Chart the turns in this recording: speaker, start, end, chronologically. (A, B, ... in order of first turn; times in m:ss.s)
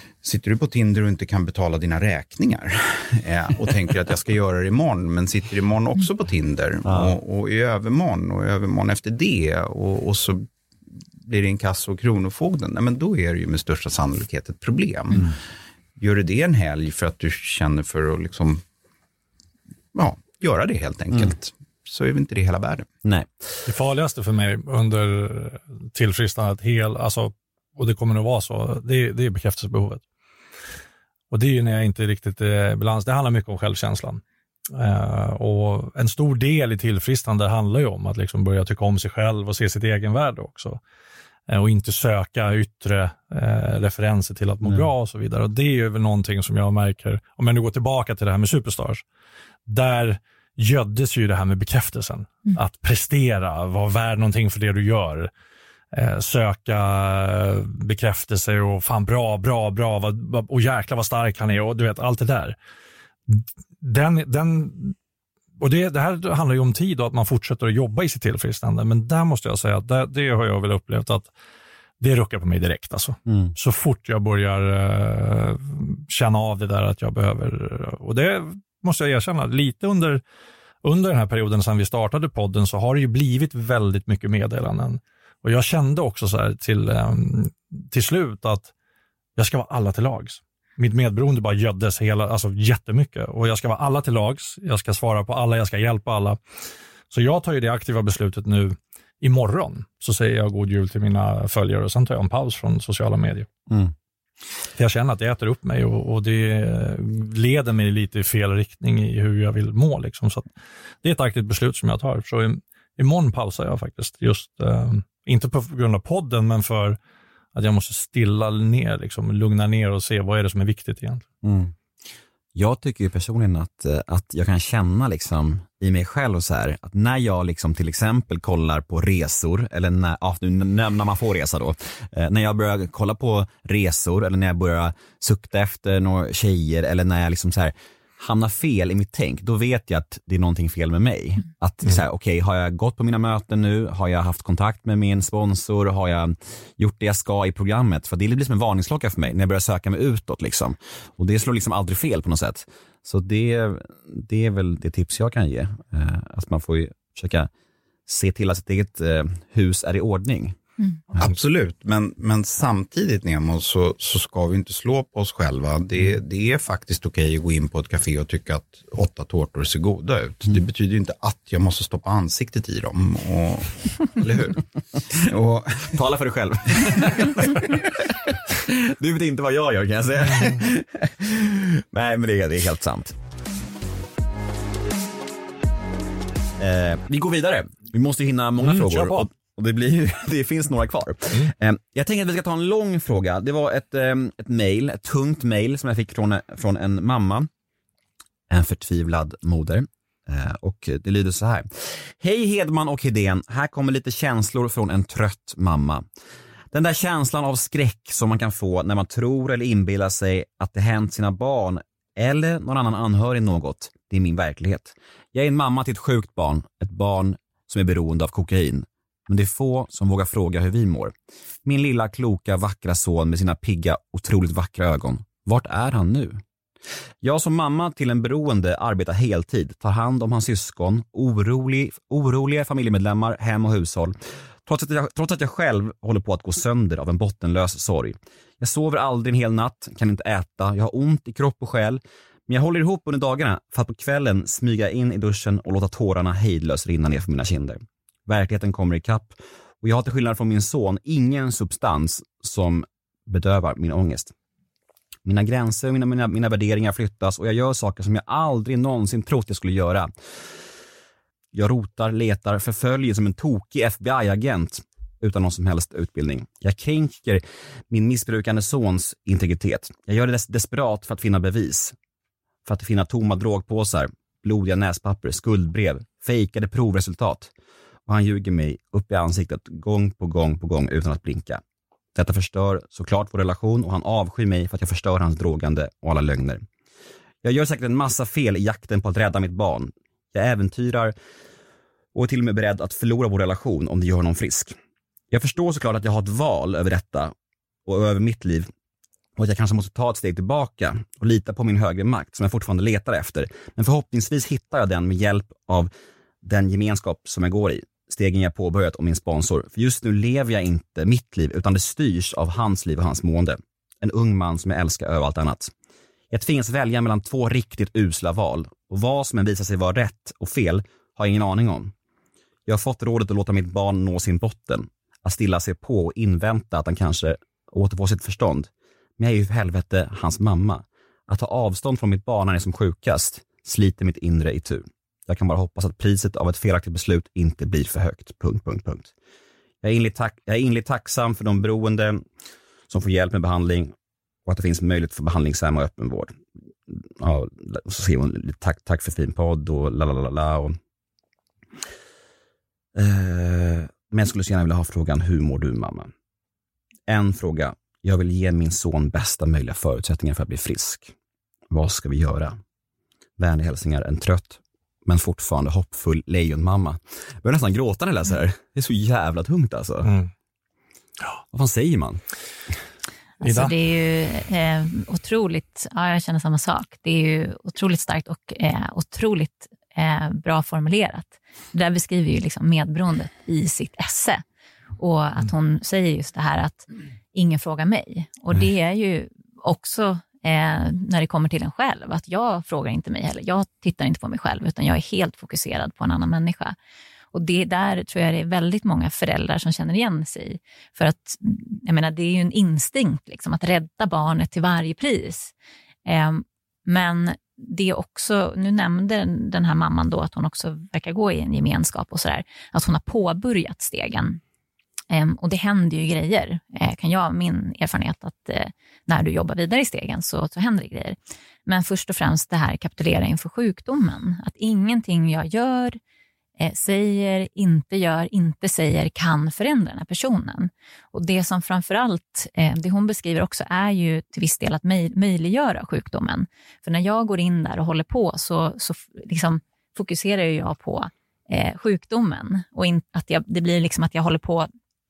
0:00.2-0:10.5 A
0:06.8-0:07.1 B
0:11.2-0:15.3 A
0:16.0-0:18.6 A
0:19.9-0:22.9 A
0:23.0-0:23.3 B
0:23.6-0:30.0 C
0:31.3-0:40.8 C
0:41.5-0:49.0 C
0:49.7-0:55.3 C
0:55.9-1:02.5 C
1:03.3-1:04.9 C
1:05.6-1:11.3 C
1:12.0-1:20.2 C
1:13.3-1:13.5 B
1:20.8-1:28.7 C
1:29.4-1:36.4 C
1:37.1-1:43.5 C
1:44.8-1:50.5 C
1:51.0-1:57.0 C
1:57.5-2:01.2 C
2:01.4-2:01.7 B
2:02.5-2:37.5 B
2:38.1-2:40.6 B
2:41.2-2:56.0 A
2:55.9-3:03.2 B
3:06.6-3:17.5 B
3:08.6-3:09.2 C
3:18.5-3:26.0 B
3:26.7-3:41.1 B
3:41.6-3:46.4 B
3:47.2-3:54.1 B
3:54.6-4:14.3 B
4:15.2-4:20.1 B
4:21.5-4:31.9 B
4:32.6-4:37.5 B
4:38.1-4:41.6 B
4:42.1-4:46.6 B
4:47.4-4:51.1 B
4:52.1-4:54.7 B
4:55.3-4:57.3 B
4:57.8-4:58.7 B
4:59.4-5:05.9 B
5:06.4-5:15.7 B
5:16.3-5:21.9 B
5:22.6-5:39.1 B
5:39.8-5:42.2 B
5:42.9-5:43.9 B
5:44.4-5:46.4 B
5:46.9-5:50.8 B
5:53.0-5:56.1 B
5:57.1-6:01.1 B
6:01.7-6:02.6 B
6:03.4-6:10.1 B
6:10.0-6:10.3 C
6:11.5-6:12.2 B
6:13.4-6:24.4 D
6:13.4-6:13.7 C
6:25.0-6:36.7 D
6:37.3-6:45.5 D
6:46.0-6:54.4 D
6:55.1-7:06.0 D
7:06.6-7:24.7 D